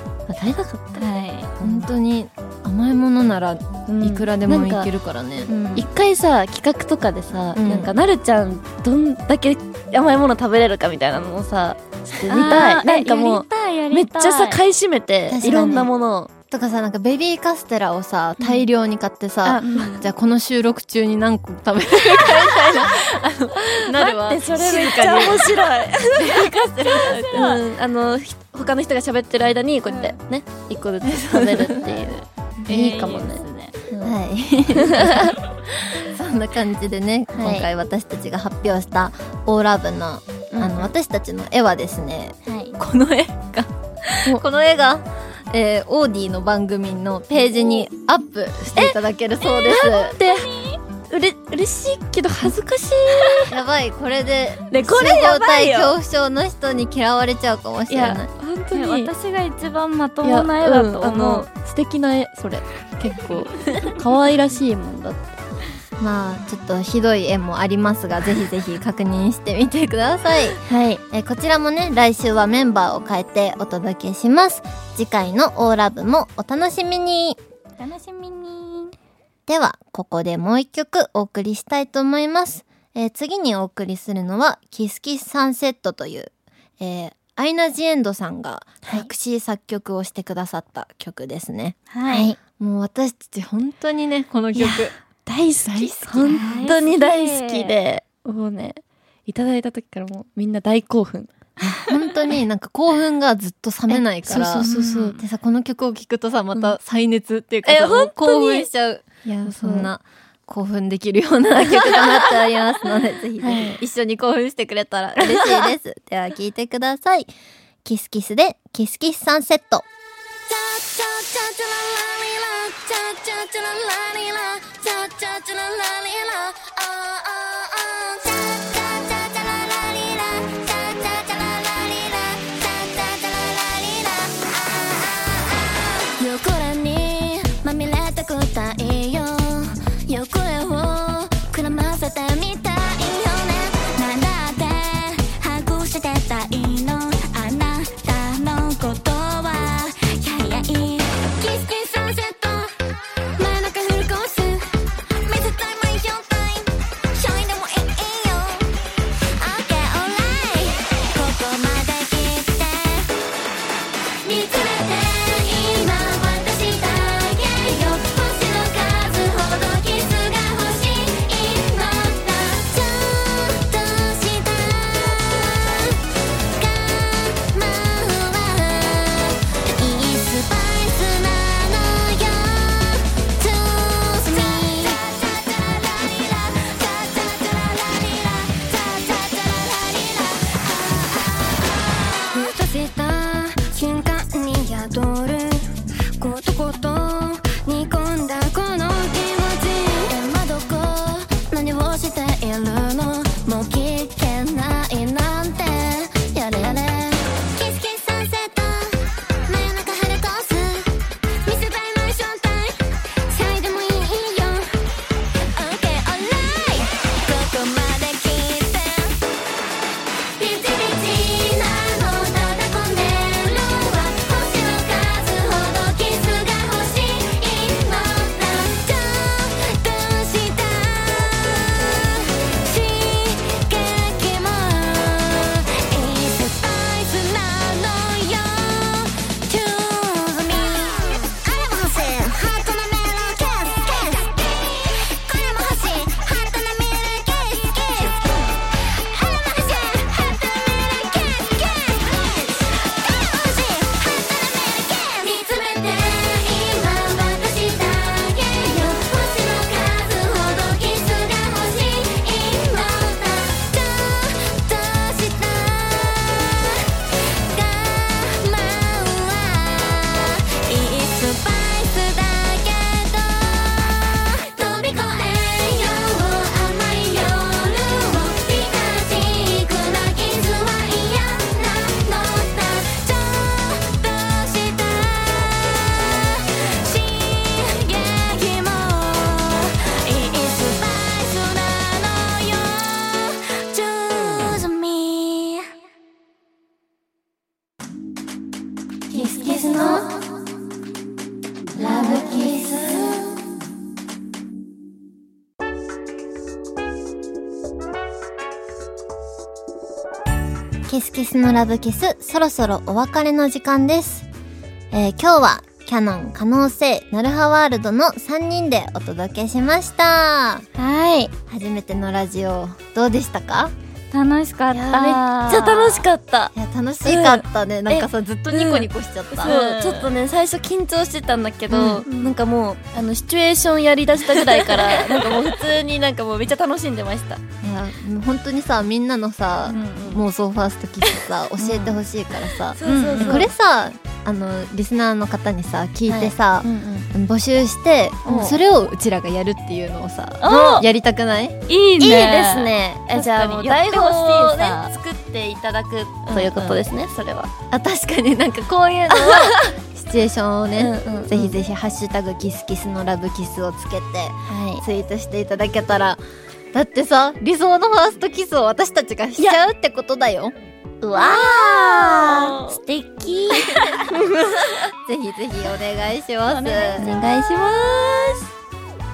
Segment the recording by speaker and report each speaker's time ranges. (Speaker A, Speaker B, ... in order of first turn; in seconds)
Speaker A: 0.3-1.0, 3.9-4.9, 5.7-16.3, 19.4-19.9, 22.3-22.9, 23.9-34.1, 34.8-35.4, 37.4-37.7, 40.5-40.9, 49.7-50.5, 51.1-53.5, 54.7-56.0, 57.9-59.1, 60.2-65.4, 70.7-71.0, 94.5-101.3, 103.9-105.2, 107.7-108.7, 109.2-109.9, 113.4-113.8, 115.2-115.7, 324.7-326.5, 327.1-337.4, 339.7-340.2, 341.1-342.0, 342.7-343.5, 346.1-347.1, 348.3-348.6, 352.0-357.5, 359.1-359.6, 360.8-361.6, 364.5-364.8, 371.0-374.9, 377.0-378.5
Speaker B: 1.0-1.5, 5.5-5.9, 12.3-14.6, 19.6-20.1, 24.7-25.3, 26.8-27.6, 29.9-30.2, 32.7-33.7, 42.5-42.8, 49.4-50.8, 58.7-61.5, 77.8-78.9, 91.9-92.3, 96.2-97.8, 104.6-105.3, 320.8-321.3, 324.1-326.1, 329.4-330.1, 332.1-332.3, 342.9-343.4, 350.4-350.9, 351.7-354.9, 356.3-356.8, 371.2-372.8, 373.8-374.1, 376.5-377.1
Speaker C: 1.6-5.5, 7.5-7.9, 15.3-15.9, 16.5-27.6, 31.0-32.0, 34.0-50.2, 53.5-58.3, 66.0-77.4, 79.5-94.9, 95.7-96.7, 101.6-117.3, 117.8-119.9, 299.5-300.0, 301.8-302.6, 310.9-314.3, 314.9-320.6, 321.5-323.7, 326.6-329.5, 331.7-332.0, 337.6-351.6, 357.7-366.2, 366.7-370.6, 375.0-377.1
Speaker D: 120.5-152.8, 153.4-158.7, 159.4-163.1, 164.2-214.8, 215.5-219.2, 220.4-295.6, 299.1-300.1, 301.8-302.9